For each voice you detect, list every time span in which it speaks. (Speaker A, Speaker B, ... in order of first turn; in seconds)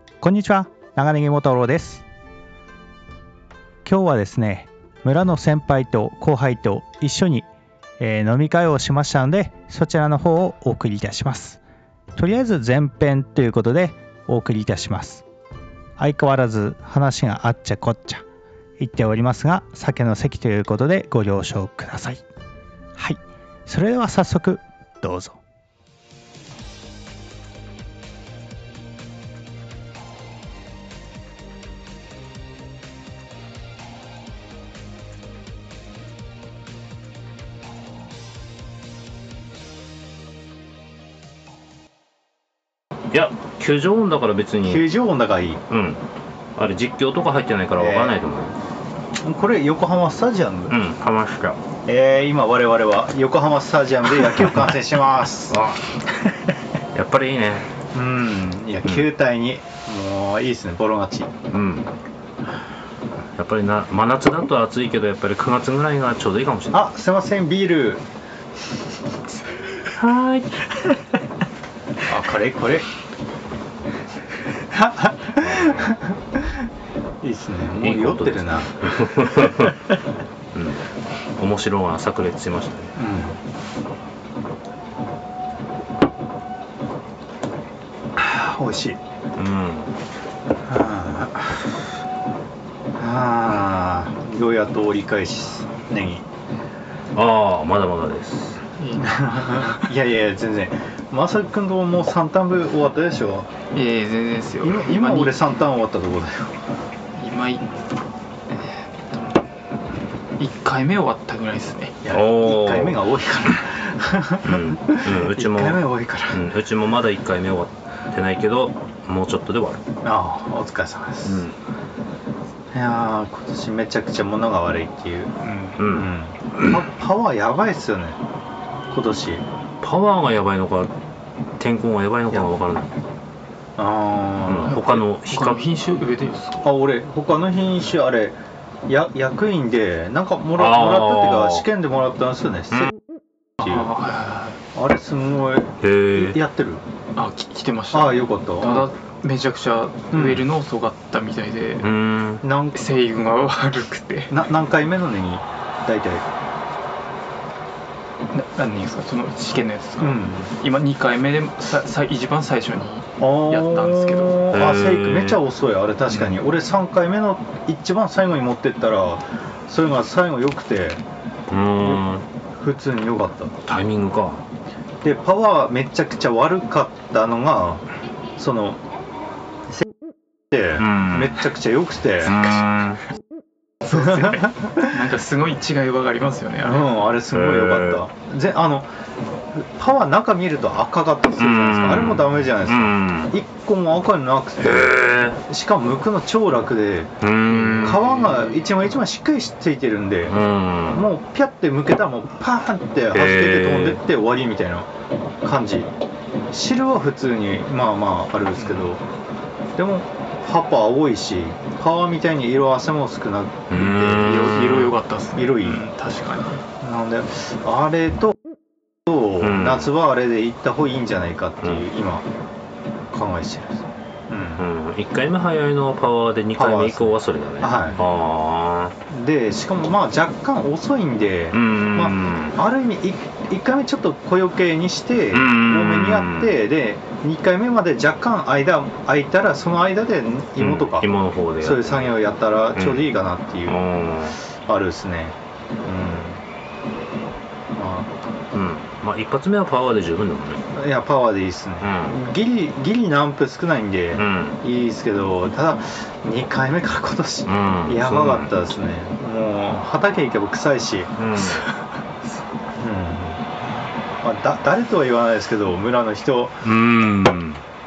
Speaker A: 0.2-2.0, 3.9-7.5, 8.0-11.6, 12.2-15.2, 16.0-18.2, 18.8-22.2, 23.0-25.4, 44.6-45.6, 47.8-48.2, 49.2-50.8, 51.9-55.6, 57.9-61.3, 66.7-68.0, 72.0-72.9, 74.7-76.7, 77.2-80.0, 83.0-83.4, 88.2-89.0, 90.7-91.4, 93.0-96.3, 99.0-103.5, 104.6-106.6, 112.0-116.4, 120.0-121.5, 122.7-128.2, 128.9-129.4, 133.8-134.8, 136.6-143.0, 143.6-143.9, 144.7-146.8, 147.9-148.9, 150.1-150.4, 152.4-152.8, 154.3-156.2, 160.0-160.5, 163.2-171.0, 171.8-172.1, 172.6-173.6, 175.0-177.8, 178.4-178.8, 180.5-182.5, 183.9-185.0, 186.6-188.9, 189.5-197.1, 197.8-200.4, 200.9-204.9, 205.4-205.9, 206.5-209.0, 209.8-214.3, 215.4-215.8, 216.8-218.4, 219.1-222.3, 223.1-224.7, 226.6-228.0, 229.1-241.1, 241.6-243.8, 244.7-246.4, 247.8-248.1, 250.7-261.1, 262.8-263.4, 264.2-266.6
Speaker B: 43.1-44.9, 45.7-46.0, 46.5-48.6, 50.7-51.6, 55.5-55.8, 56.9-57.7, 61.5-61.9, 63.4-66.9, 69.9-70.7, 75.4-75.9, 77.8-79.8, 80.5-80.8, 81.4-83.0, 89.3-89.9, 97.1-98.6, 112.1-113.0, 114.4-119.8, 121.2-121.6, 125.8-126.1, 129.8-130.9, 131.6-132.9, 134.5-135.7, 140.6-141.7, 145.8-146.4, 151.8-152.4, 164.5-165.4, 171.5-172.2, 173.7-174.4, 180.8-181.5, 182.2-183.0, 187.3-188.0, 191.4-193.3, 194.6-195.4, 197.2-198.0, 200.3-201.1, 203.1-204.0, 213.7-215.0, 219.4-219.9, 221.6-221.9, 224.6-228.9, 231.5-232.6, 235.3-236.5, 240.6-242.2, 242.7-243.1, 243.7-244.4, 248.5-250.7, 251.8-252.2, 254.2-254.6, 257.5-258.5, 261.2-261.7, 266.6-267.6
Speaker C: 98.8-99.9, 103.7-105.4, 107.2-107.7, 108.5-109.4, 110.4-112.0, 125.4-125.8, 134.7-136.7, 143.6-144.6, 147.2-151.9, 152.7-154.3, 158.3-164.5, 183.9-186.9, 197.5-198.7, 208.6-208.9, 213.9-216.6